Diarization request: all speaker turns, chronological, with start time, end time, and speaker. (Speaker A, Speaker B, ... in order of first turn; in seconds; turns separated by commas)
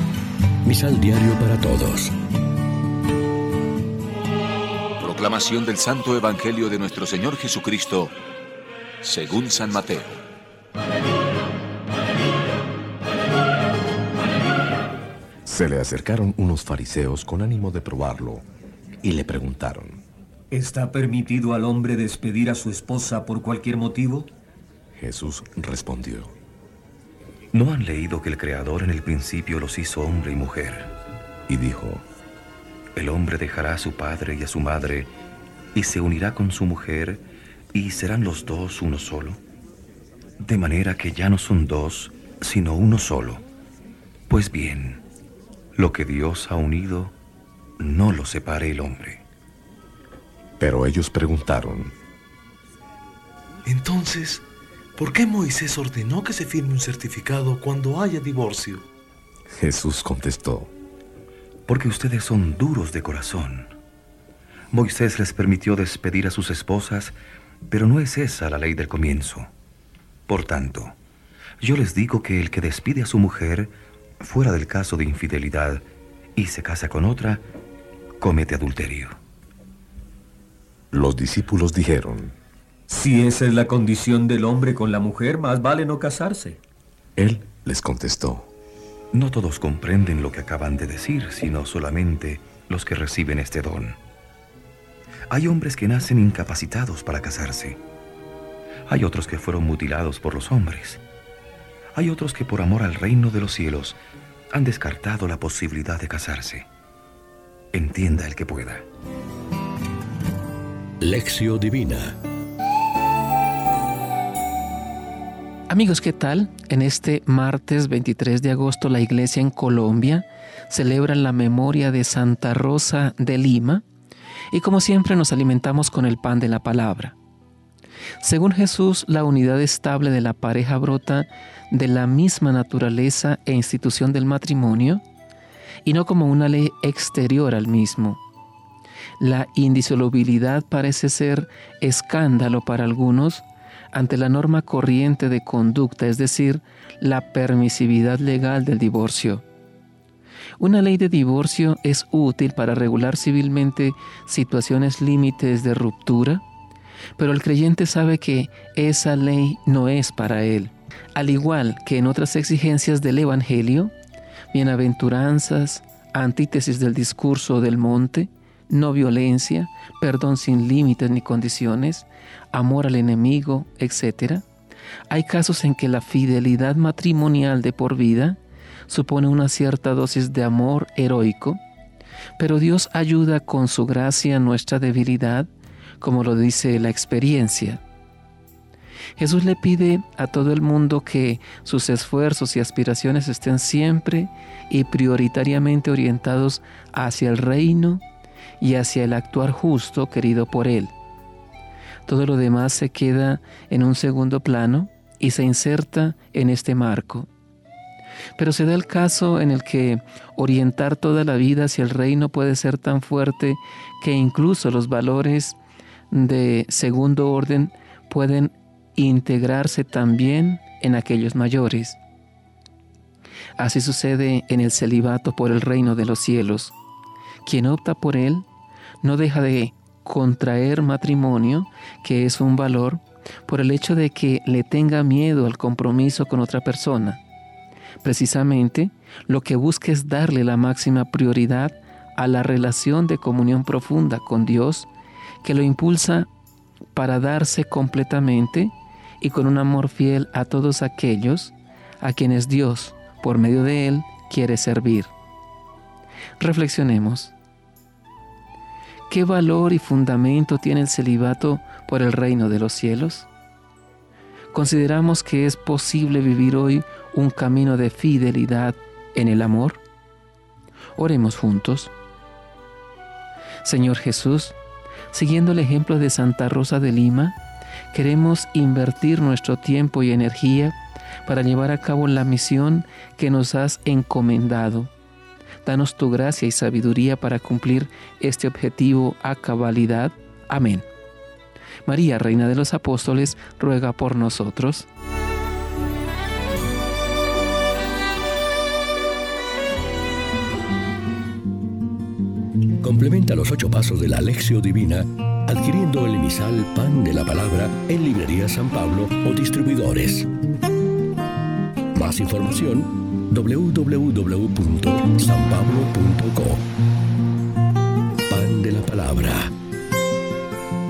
Speaker A: 0.6-2.1, Speaker B: 5.0-8.1, Speaker B: 9.0-10.2, Speaker C: 15.4-18.4, Speaker C: 19.0-20.0, Speaker D: 20.5-24.3, Speaker C: 25.0-26.3, Speaker E: 27.5-30.9, Speaker C: 31.5-32.0, Speaker E: 33.0-35.1, Speaker E: 35.7-39.4, Speaker E: 40.4-43.4, Speaker E: 44.3-45.0, Speaker E: 45.8-47.1, Speaker E: 47.8-49.2, Speaker C: 50.6-51.9, Speaker F: 53.6-54.4, Speaker F: 55.0-58.8, Speaker C: 59.5-60.7, Speaker E: 61.7-63.7, Speaker E: 64.7-67.2, Speaker E: 67.7-69.5, Speaker E: 70.3-71.0, Speaker E: 71.6-75.8, Speaker E: 76.3-77.4, Speaker E: 78.2-79.2, Speaker C: 80.9-82.3, Speaker D: 82.9-86.6, Speaker C: 87.2-88.5, Speaker E: 89.1-94.0, Speaker E: 95.3-97.8, Speaker E: 98.9-101.0, Speaker E: 101.9-104.0, Speaker E: 104.5-106.7, Speaker E: 107.7-108.8, Speaker A: 111.0-112.2, Speaker G: 115.7-123.8, Speaker G: 124.5-127.2, Speaker G: 128.2-135.0, Speaker G: 135.8-138.2, Speaker G: 139.2-149.4, Speaker G: 150.6-156.4, Speaker G: 157.2-163.9, Speaker G: 164.5-174.4, Speaker G: 175.1-181.6, Speaker G: 182.4-187.8, Speaker G: 189.2-198.0, Speaker G: 198.6-200.9, Speaker G: 202.1-207.3, Speaker G: 208.4-215.6, Speaker G: 216.1-222.0, Speaker G: 223.6-226.7, Speaker G: 227.4-228.4, Speaker G: 229.0-237.2, Speaker G: 238.0-244.9, Speaker G: 245.4-246.3, Speaker G: 246.9-255.1, Speaker G: 256.4-257.3, Speaker G: 259.1-263.3, Speaker G: 264.5-269.8, Speaker G: 270.9-271.9, Speaker G: 273.6-274.5, Speaker G: 275.1-277.4, Speaker G: 277.9-284.9, Speaker G: 285.6-290.9, Speaker G: 291.9-294.9, Speaker A: 302.8-310.3, Speaker A: 311.9-316.6, Speaker A: 318.3-319.5